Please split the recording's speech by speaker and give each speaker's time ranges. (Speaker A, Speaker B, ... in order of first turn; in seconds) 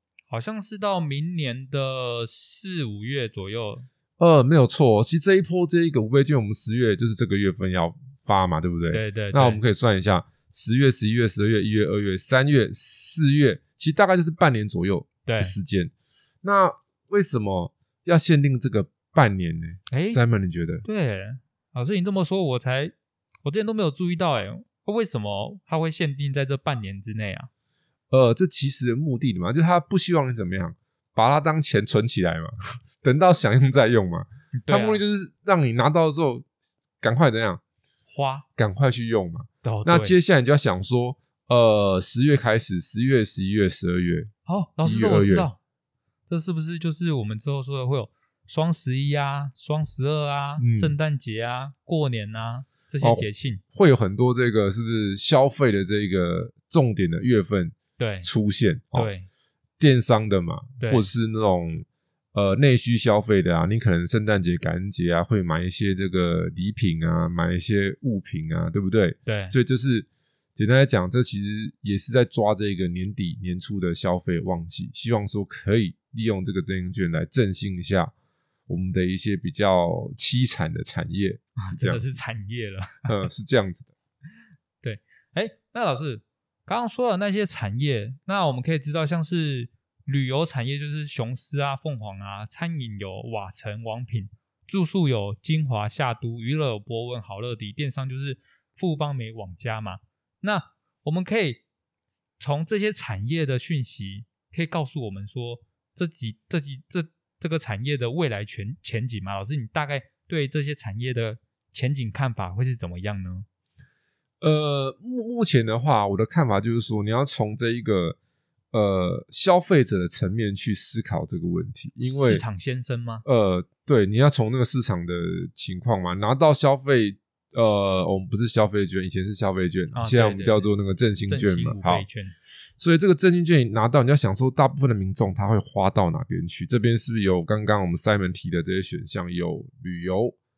Speaker A: 0.3-3.9, 8.9-9.6, 15.2-15.6, 19.9-20.2, 20.8-27.5, 34.6-35.0, 38.1-38.4, 39.6-40.1, 44.5-45.6, 46.3-53.6, 58.0-58.3, 58.9-59.3, 60.8-61.1, 69.2-69.5, 81.6-83.1, 84.8-101.6, 102.4-113.5, 122.1-123.2, 129.9-130.7, 131.3-132.3
Speaker B: 4.2-15.9, 16.4-20.8, 28.1-36.5, 37.0-37.6, 38.5-44.3, 44.8-45.5, 50.6-50.9, 53.0-59.1, 59.8-78.1, 78.7-82.1, 83.0-83.9, 114.4-118.2, 118.7-122.4, 123.2-132.1, 132.8-140.3